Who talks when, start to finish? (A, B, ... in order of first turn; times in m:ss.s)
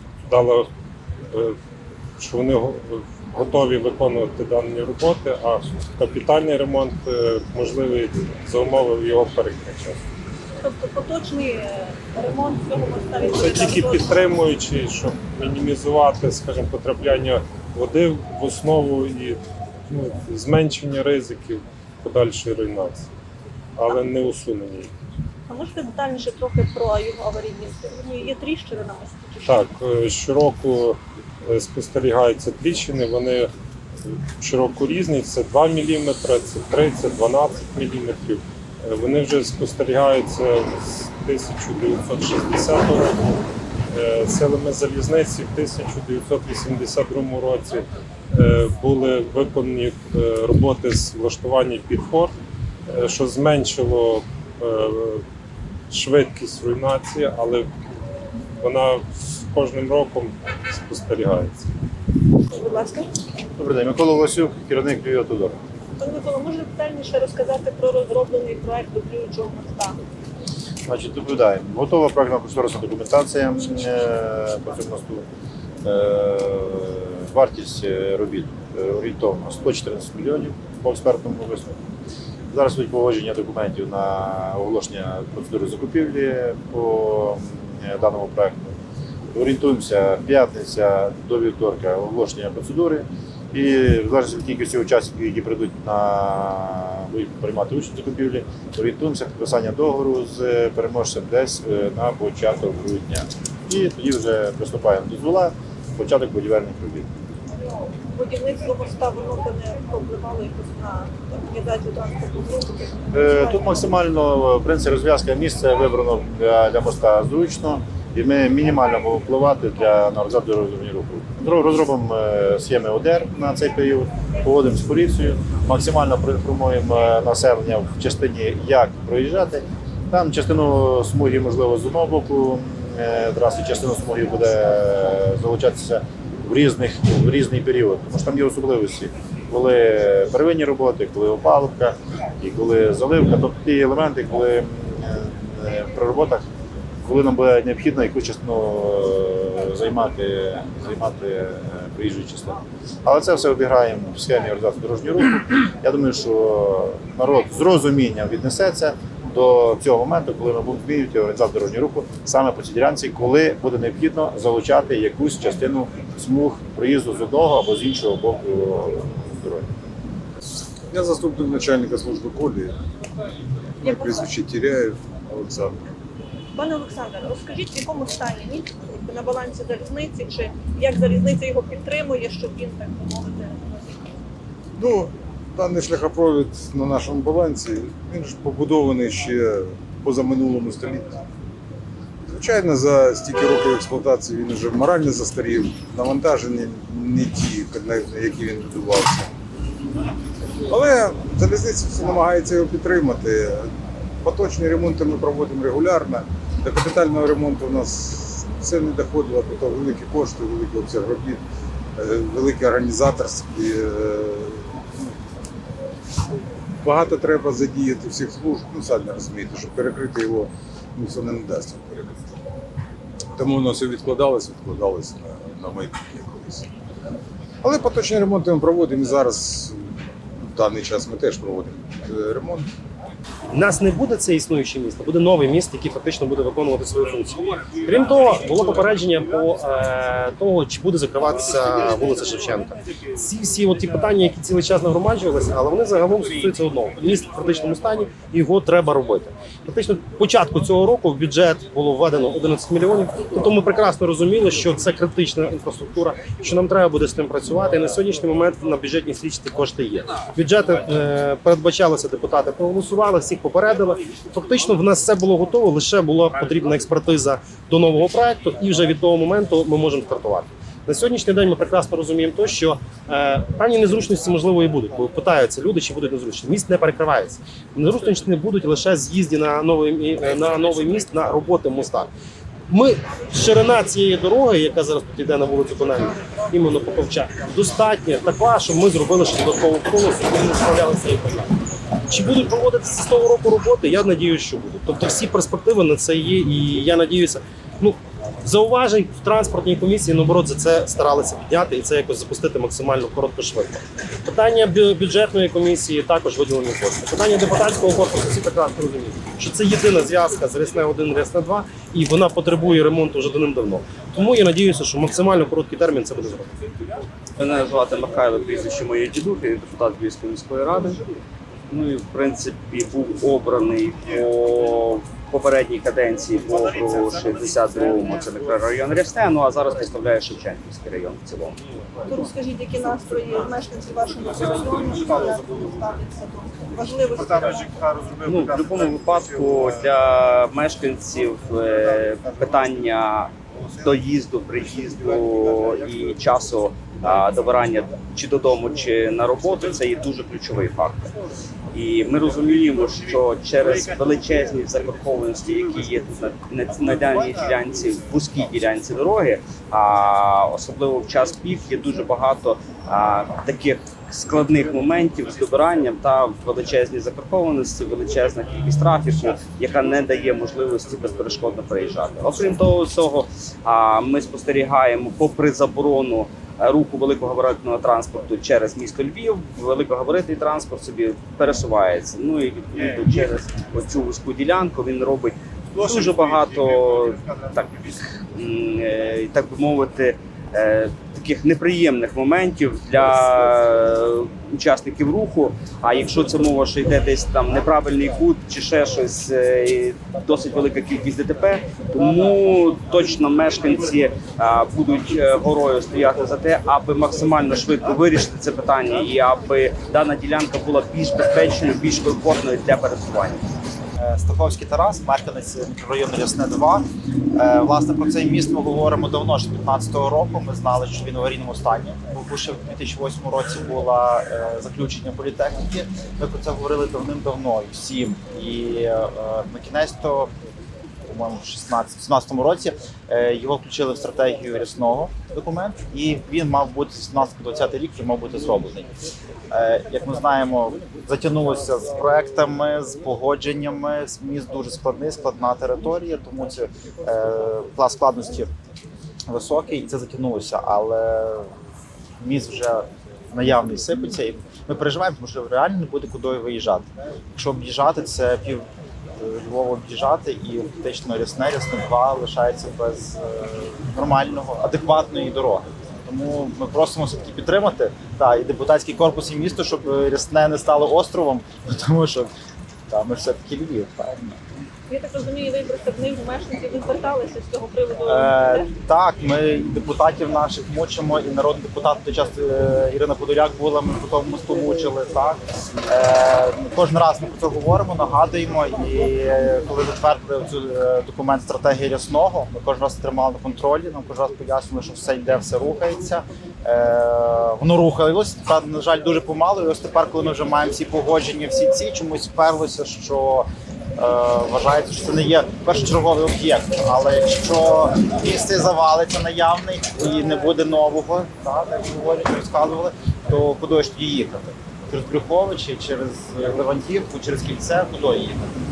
0:00.3-0:00.7 A
0:02.2-0:10.0 A
0:10.6-0:14.0 B
0:13.3-0:19.4 A
0:19.9-0:23.1 A
0:23.8-0:24.9 A
0:25.5-0:29.6 B
0:29.4-0:33.5 A
0:34.4-0:43.2 A
0:43.9-0:52.3 A
0:52.9-0:55.2 A
0:55.9-0:57.7 A
0:58.6-1:01.7 A
1:02.5-1:03.1 B
1:03.6-1:05.6 C
1:06.0-1:10.0 B
1:10.9-1:15.2 C
1:15.8-1:21.8 C
1:22.5-1:28.8 C
1:29.3-1:47.1 C
1:48.1-1:53.7 B
1:53.1-2:26.4 C
2:27.0-2:49.7 C
2:50.9-2:52.8 D
2:53.8-2:55.9 D
2:53.8-2:54.3 B
2:56.6-3:04.0 B
3:04.8-3:11.2 D
3:12.3-3:19.3 D
3:20.7-3:23.7 D
3:24.2-3:31.4 D
3:32.0-3:35.1 D
3:36.8-3:42.2 D
3:43.3-3:46.7 D
3:47.6-3:52.7 D
3:53.5-4:42.1 E
4:42.7-4:51.5 E
4:52.1-5:16.5 E
5:17.4-5:21.0 F
5:21.7-5:31.6 F
5:32.0-5:37.8 B
5:38.2-5:51.1 F
5:51.7-6:53.4 F
6:54.0-7:10.3 G
7:11.0-7:18.9 G
7:19.5-7:28.5 G
7:29.3-7:31.5 G
7:32.2-7:52.3 G
7:52.9-7:54.4 G
7:54.9-7:58.7 B
7:58.0-8:38.5 G